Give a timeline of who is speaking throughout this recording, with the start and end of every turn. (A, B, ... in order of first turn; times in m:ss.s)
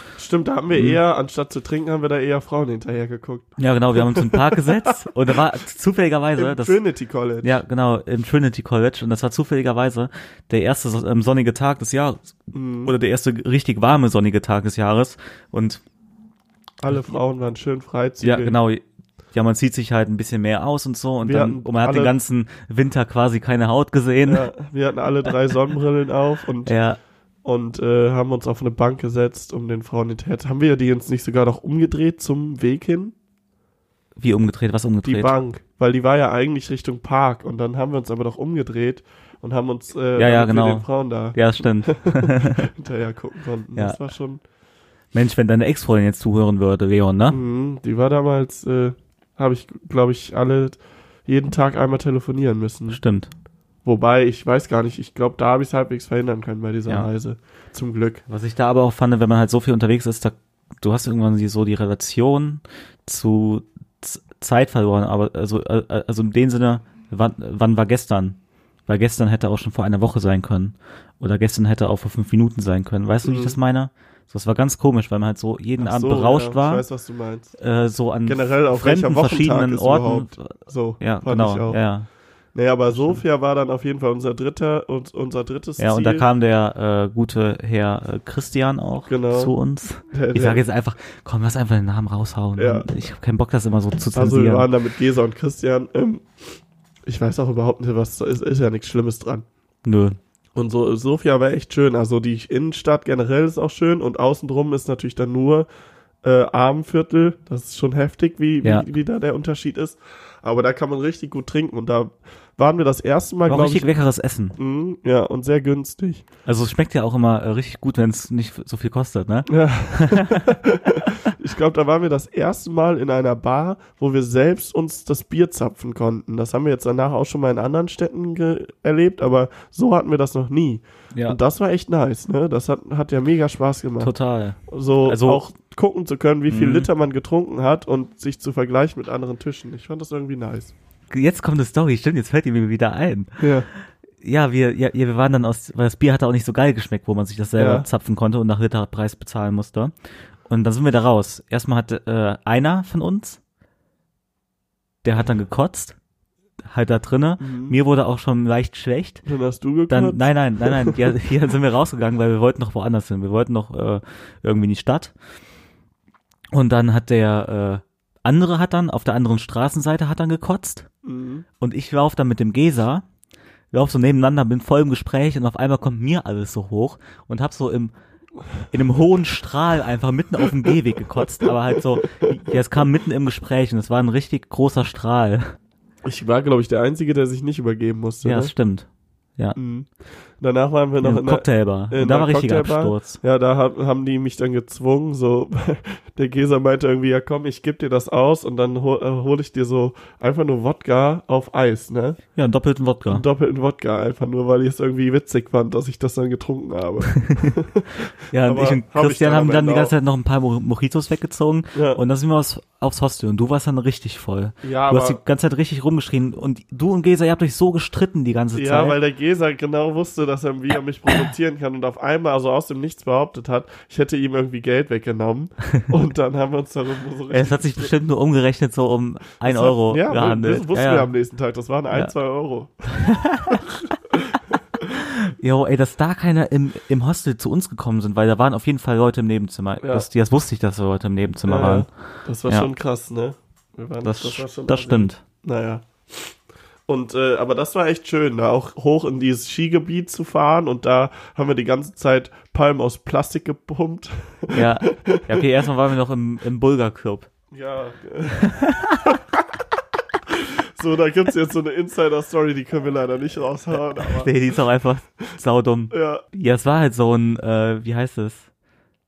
0:00.2-0:04.9 A
0:00.7-0:01.0 B
0:03.6-0:06.8 B
0:06.4-0:07.6 A
0:07.4-0:15.8 B
0:12.5-0:12.9 A
0:16.8-0:18.6 A
0:18.2-0:24.5 B
0:21.2-0:22.1 A
0:24.2-0:26.7 A
0:26.6-0:27.0 B
0:27.4-0:33.1 A
0:34.2-0:35.3 B
0:35.0-0:44.4 A
0:40.2-0:42.7 B
0:43.7-0:44.0 B
0:45.1-0:47.4 B
0:47.3-0:53.0 A
0:52.9-0:53.3 B
0:53.8-0:58.2 A
0:58.3-1:16.8 B
1:13.2-1:13.6 A
1:15.8-1:17.5 A
1:17.6-1:22.1 B
1:18.2-1:21.8 A
1:22.5-1:26.2 A
1:22.9-1:23.2 B
1:25.8-1:34.7 B
1:29.1-1:29.5 A
1:30.1-1:30.6 A
1:32.6-1:32.9 A
1:34.1-1:39.4 A
1:39.8-1:40.2 B
1:40.5-1:45.7 A
1:46.2-1:53.9 A
1:53.5-1:54.6 B
1:54.6-1:56.2 A
1:56.4-2:00.6 B
1:59.5-2:14.1 A
2:14.0-2:15.4 B
2:14.7-2:20.7 A
2:16.5-2:16.9 B
2:21.1-2:23.4 B
2:23.4-2:23.7 A
2:24.2-2:29.9 B
2:27.6-2:27.9 A
2:30.5-2:33.4 B
2:35.0-2:36.0 B
2:36.6-2:39.2 B
2:37.4-2:37.8 A
2:39.2-2:41.1 A
2:39.9-2:45.1 B
2:46.5-2:50.9 B
2:51.0-2:51.4 A
2:51.6-2:53.0 B
2:53.7-2:57.9 B
2:58.7-3:05.5 B
3:01.4-3:02.6 A
3:06.0-3:08.5 A
3:08.2-3:08.9 B
3:09.6-3:09.9 A
3:10.4-3:22.2 A
3:11.0-3:13.2 B
3:22.4-3:23.2 B
3:23.1-3:29.9 A
3:27.1-3:27.6 B
3:28.3-3:39.0 B
3:31.7-3:32.0 A
3:34.6-3:35.2 A
3:38.5-3:47.9 A
3:47.3-3:51.1 B
3:49.4-3:54.8 A
3:53.0-3:53.6 B
3:55.4-4:01.9 B
3:59.8-4:00.1 A
4:01.4-4:06.3 A
4:04.0-4:05.2 B
4:06.9-4:15.4 A
4:14.5-4:17.3 B
4:17.5-4:19.6 A
4:18.5-4:19.1 B
4:20.3-4:24.3 A
4:24.0-4:28.5 B
4:25.9-4:26.2 A